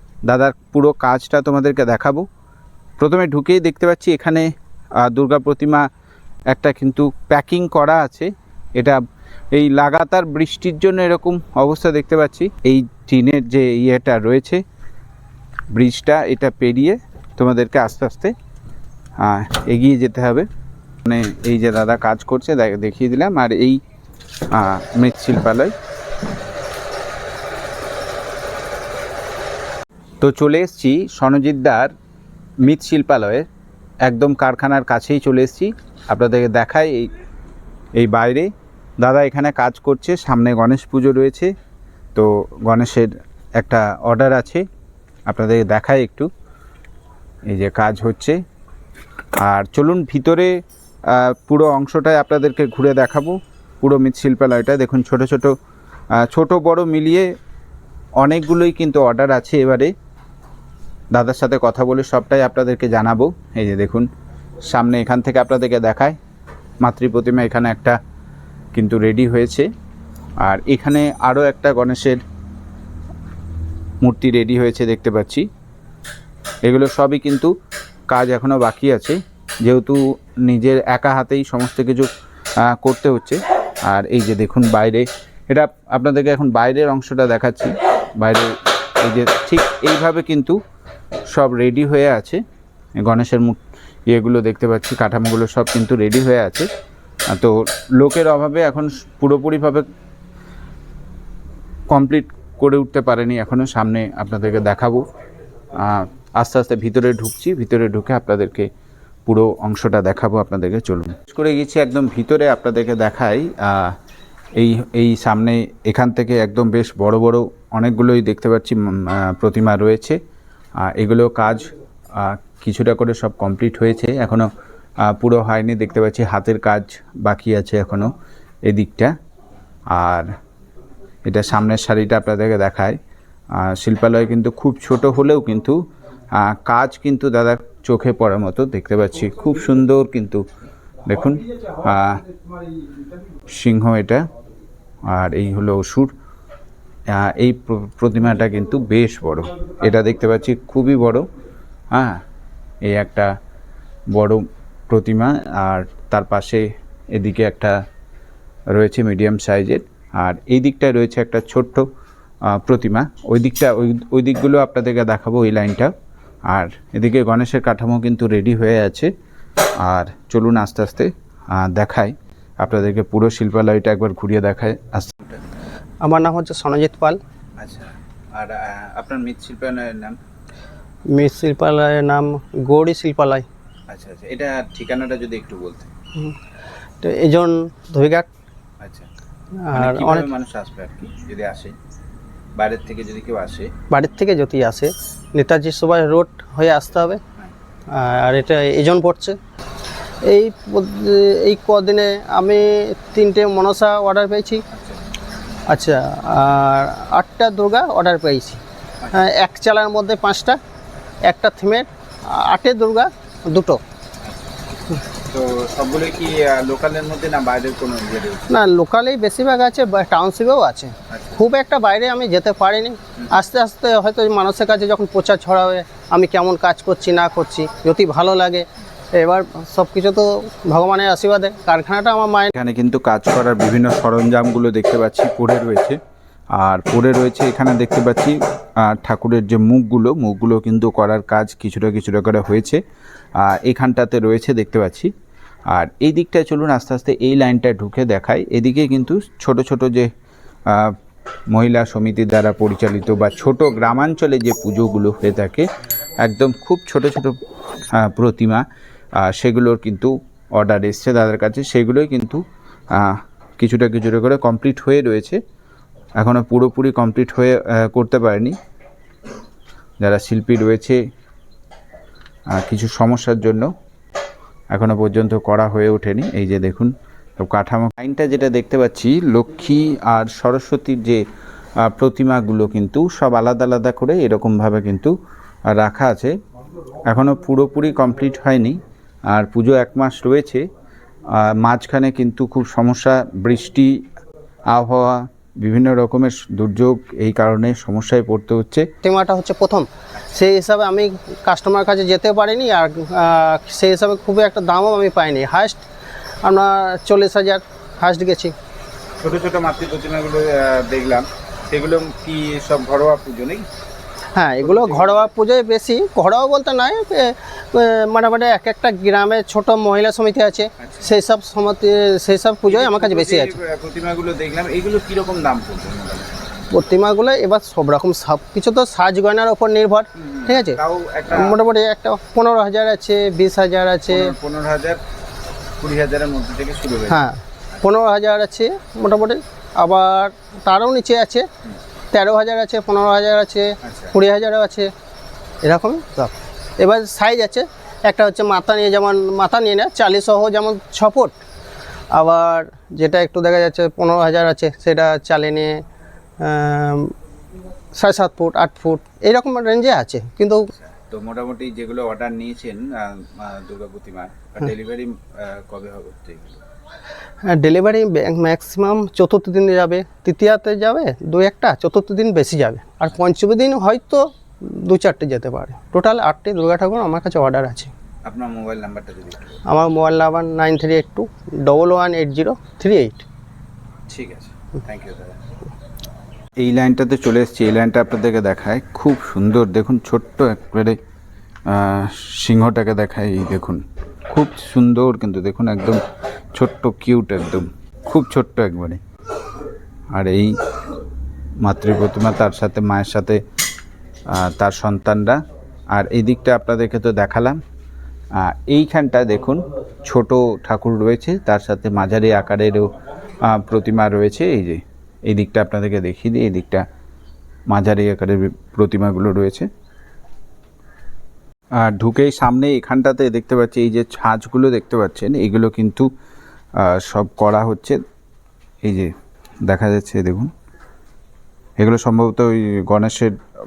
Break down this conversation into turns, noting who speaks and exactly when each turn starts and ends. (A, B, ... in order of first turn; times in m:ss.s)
0:00.3-0:02.2 A
0:03.0-0:04.5 A
0:05.0-0:05.9 A
0:06.5-0:09.0 A
0:09.5-0:14.6 A
0:15.7-0:18.3 A
0:19.2-0:20.5 A
0:21.0-0:23.8 A
0:24.5-0:25.7 A
0:30.2-0:31.9 A
0:32.6-0:33.4 A
0:34.0-0:37.1 A
0:38.0-0:41.5 A
0:42.1-0:44.6 A
0:45.3-0:46.3 A
0:47.5-0:48.4 A
0:49.4-0:50.5 A
0:51.1-0:55.5 A
0:56.2-0:57.3 A
0:58.2-0:59.9 A
1:01.1-1:04.1 A
1:04.6-1:06.2 A
1:06.8-1:08.0 A
1:08.7-1:09.7 A
1:10.4-1:12.2 A
1:14.0-1:15.5 A
1:16.6-1:17.5 A
1:18.1-1:30.6 A
1:31.3-1:32.4 A
1:33.0-1:36.7 A
1:37.3-1:39.9 A
1:41.9-1:45.0 A
1:45.7-1:48.7 A
1:49.2-1:54.0 A
1:54.6-2:00.2 A
2:00.8-2:04.5 A
2:05.0-2:08.1 A
2:08.6-2:09.1 A
2:09.9-2:10.3 A
2:11.2-2:13.0 A
2:13.5-2:15.8 A
2:16.3-2:20.4 A
2:21.1-2:22.2 A
2:23.5-2:24.2 A
2:25.0-2:26.1 A
2:27.1-2:31.3 A
2:31.9-2:32.2 A
2:32.8-2:33.3 A
2:34.1-2:37.8 A
2:38.7-2:41.9 A
2:42.4-2:45.9 A
2:46.5-2:49.1 A
2:49.8-2:55.4 A
2:56.0-2:57.2 B
2:57.6-3:00.2 A
3:01.1-3:03.4 B
3:03.9-3:05.9 A
3:07.0-3:08.3 B
3:08.8-3:09.1 A
3:09.6-3:10.3 B
3:09.7-3:11.7 A
3:12.6-3:13.7 A
3:13.9-3:17.2 B
3:17.9-3:19.4 B
3:20.2-3:24.6 B
3:24.7-3:25.0 A
3:25.7-3:28.6 B
3:29.0-3:29.3 A
3:29.1-3:30.6 B
3:31.2-3:33.8 B
3:35.3-3:38.5 A
3:38.5-3:52.5 B
3:41.1-3:41.4 A
3:52.5-3:56.0 A
3:56.5-4:02.8 A
4:03.4-4:05.1 A
4:05.7-4:10.1 A
4:10.7-4:11.0 A
4:11.5-4:15.6 A
4:16.2-4:17.4 A
4:17.9-4:22.4 A
4:22.9-4:25.4 A
4:26.2-4:28.6 A
4:30.0-4:31.0 A
4:32.5-4:33.7 A
4:34.7-4:41.2 A
4:41.8-4:45.1 A
4:45.7-4:46.3 A
4:47.1-4:48.8 A
4:49.3-4:50.6 A
4:51.3-4:54.0 A
4:54.7-4:58.9 A
4:59.0-5:05.8 B
5:06.4-5:08.5 B
5:09.2-5:13.7 A
5:14.3-5:23.6 B
5:14.6-5:15.3 A
5:20.8-5:21.1 A
5:22.7-5:26.4 A
5:26.7-5:30.8 B
5:30.2-5:31.6 A
5:31.3-5:34.3 B
5:34.1-5:35.0 A
5:35.8-5:37.2 A
5:37.1-5:41.5 B
5:42.1-5:44.9 B
5:43.8-5:44.1 A
5:45.6-5:51.3 B
5:52.1-5:55.8 B
5:56.4-5:57.1 B
5:57.9-6:00.6 B
6:00.7-6:06.6 A
6:07.4-6:17.9 B
6:18.3-6:19.6 A
6:19.7-6:23.2 B
6:24.1-6:25.4 A
6:26.6-6:31.0 A
6:31.6-6:36.0 A
6:36.5-6:39.0 A
6:40.1-6:40.5 A
6:41.6-6:43.4 A
6:44.2-6:45.4 A
6:45.9-6:47.6 A
6:48.3-6:52.9 A
6:53.4-6:56.8 A
6:57.7-6:59.7 A
7:01.8-7:06.1 A
7:06.8-7:08.0 A
7:08.8-7:09.1 A
7:09.6-7:10.5 A
7:11.8-7:13.3 A